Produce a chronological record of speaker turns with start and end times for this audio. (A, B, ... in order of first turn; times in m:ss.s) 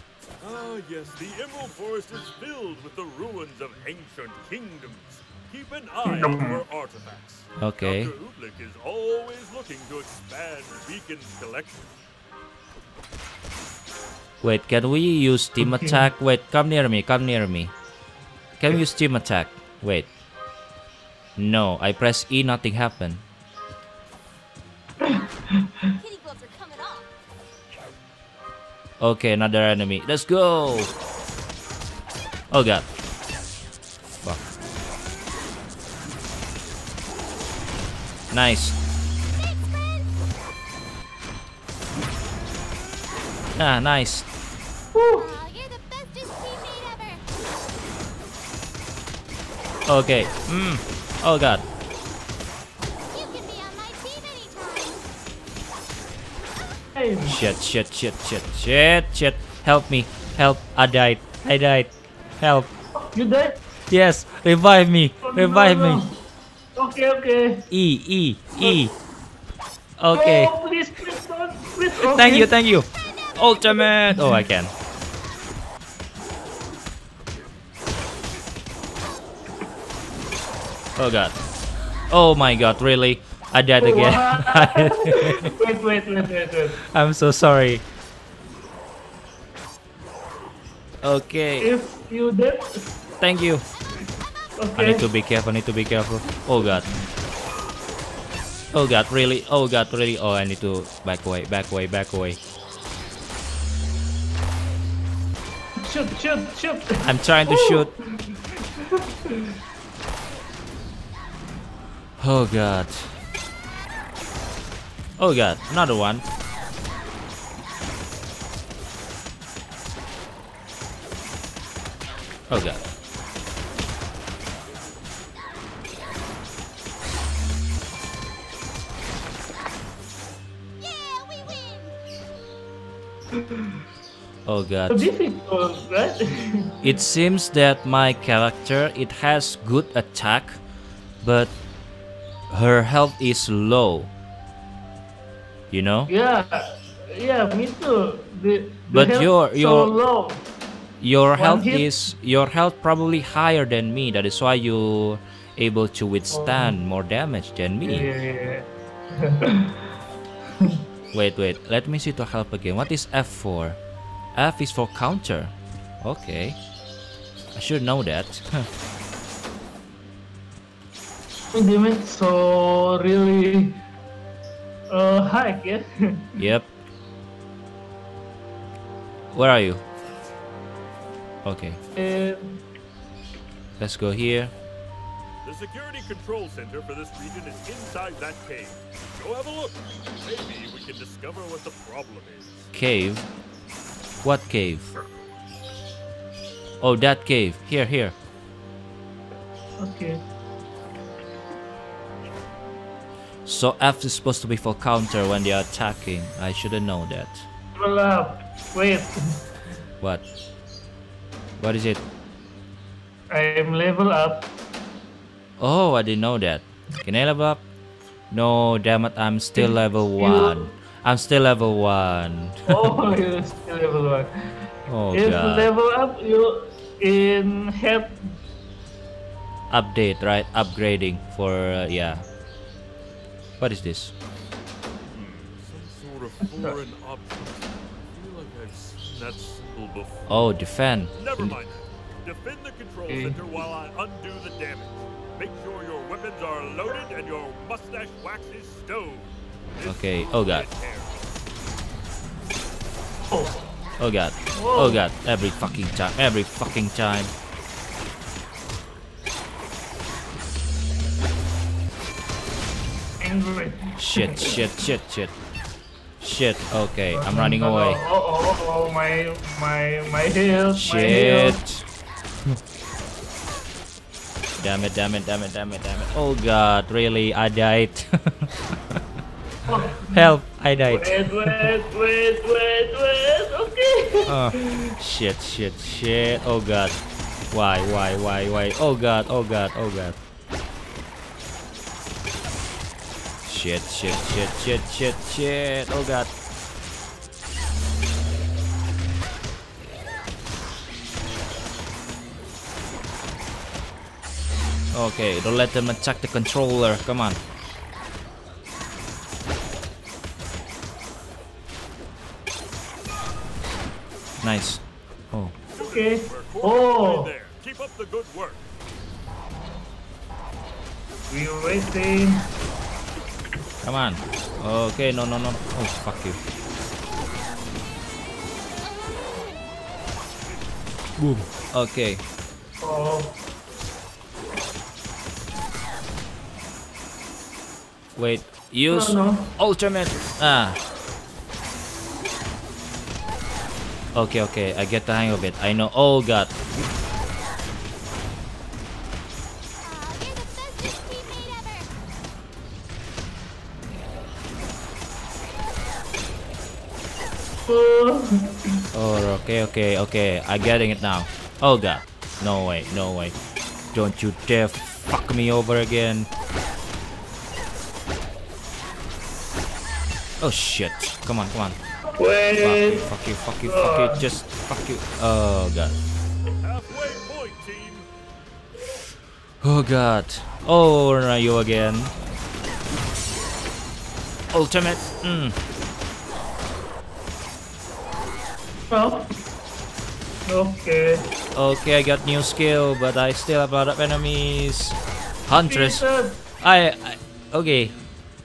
0:00.4-0:11.9 A
0:06.0-0:06.6 B
0:07.6-0:08.1 C
0:14.4-0:17.7 C
0:15.6-0:16.0 B
0:18.6-0:20.1 C
0:21.4-0:23.2 C
0:25.0-0:25.9 B
0:26.0-0:27.1 D
0:29.0-0:30.9 C
0:32.5-0:32.9 C
0:38.3-0:38.8 C
0:43.6-0:44.3 C
0:44.9-0:45.3 B
0:45.2-0:47.2 D
0:49.8-0:51.6 C
0:53.1-0:55.0 D
0:56.9-0:57.4 B
0:57.2-1:02.7 C
1:03.0-1:03.6 B
1:03.9-1:06.0 C
1:05.2-1:06.1 B
1:06.8-1:07.7 B
1:07.7-1:08.9 C
1:10.0-1:10.5 C
1:10.1-1:12.5 B
1:12.0-1:14.7 C
1:14.0-1:14.4 B
1:21.0-1:21.3 C
1:22.1-1:25.5 C
1:23.8-1:26.8 B
1:26.8-1:27.8 C
1:31.0-1:31.7 C
1:31.6-1:32.9 B
1:33.2-1:33.6 C
1:34.6-1:35.0 B
1:34.8-1:36.9 C
1:38.7-1:42.4 C
1:45.8-1:49.5 B
1:47.0-1:47.9 C
1:52.2-1:53.1 C
1:55.2-1:56.2 C
2:02.5-2:02.8 C
2:10.8-2:11.9 D
2:13.3-2:13.7 B
2:14.4-2:15.1 C
2:14.9-2:16.8 B
2:16.8-2:20.6 C
2:21.2-2:21.5 C
2:22.5-2:24.1 C
2:25.7-2:26.1 C
2:26.1-2:30.4 B
2:28.9-2:29.9 C
2:31.0-2:38.1 C
2:31.4-2:31.9 B
2:36.3-2:36.8 B
2:37.8-2:39.9 B
2:41.1-2:43.8 C
2:44.3-2:46.6 C
2:47.5-2:48.7 C
2:51.5-2:53.8 B
2:54.9-2:56.4 B
2:56.4-2:56.7 C
2:59.3-2:59.8 C
3:01.4-3:01.8 C
3:02.0-3:02.6 B
3:03.8-3:04.5 C
3:05.4-3:12.7 A
3:12.7-3:13.3 C
3:14.2-3:14.9 C
3:16.8-3:18.1 C
3:19.8-3:20.2 B
3:23.4-3:27.5 C
3:27.8-3:29.2 B
3:31.6-3:32.0 C
3:33.3-3:34.5 B
3:35.6-3:37.6 C
3:38.3-3:42.9 C
3:39.6-3:40.7 B
3:42.7-3:44.3 B
3:44.9-3:45.7 C
3:45.1-3:48.3 B
3:49.7-3:52.2 C
3:53.6-3:54.1 C
3:55.1-4:00.4 A
4:00.3-4:01.6 C
4:01.1-4:11.3 A
4:03.1-4:03.4 B
4:09.8-4:10.7 C
4:14.0-4:17.3 C
4:14.5-4:15.0 B
4:23.2-4:24.6 B
4:24.0-4:25.3 C
4:26.2-4:28.0 C
4:27.1-4:31.6 B
4:30.7-4:31.8 C
4:34.6-4:39.0 C
4:39.7-4:40.3 B
4:40.0-4:41.7 C
4:40.9-4:44.9 B
4:44.3-4:47.0 C
4:47.5-4:50.2 C
4:53.4-4:56.3 C
5:04.9-5:07.4 C
5:14.4-5:15.5 C
5:15.7-5:18.7 A
5:15.8-5:17.3 B
5:21.3-5:22.5 B
5:23.8-5:26.4 C
5:28.8-5:29.6 D
5:31.2-5:32.2 C
5:32.8-5:33.4 B
5:38.2-5:40.8 C
5:38.9-5:39.5 B
5:44.1-5:46.5 C
5:49.8-5:51.9 D
5:57.7-5:58.8 B
5:58.9-6:03.4 C
6:03.9-6:06.3 C
6:10.4-6:11.8 C
6:12.2-6:13.1 B
6:12.6-6:16.0 C
6:13.6-6:14.2 B
6:16.6-6:18.1 A
6:19.6-6:22.1 C
6:24.5-6:25.6 C
6:28.9-6:29.3 B
6:30.5-6:31.2 B
6:31.5-6:36.0 C
6:35.6-6:36.4 B
6:36.6-6:37.9 C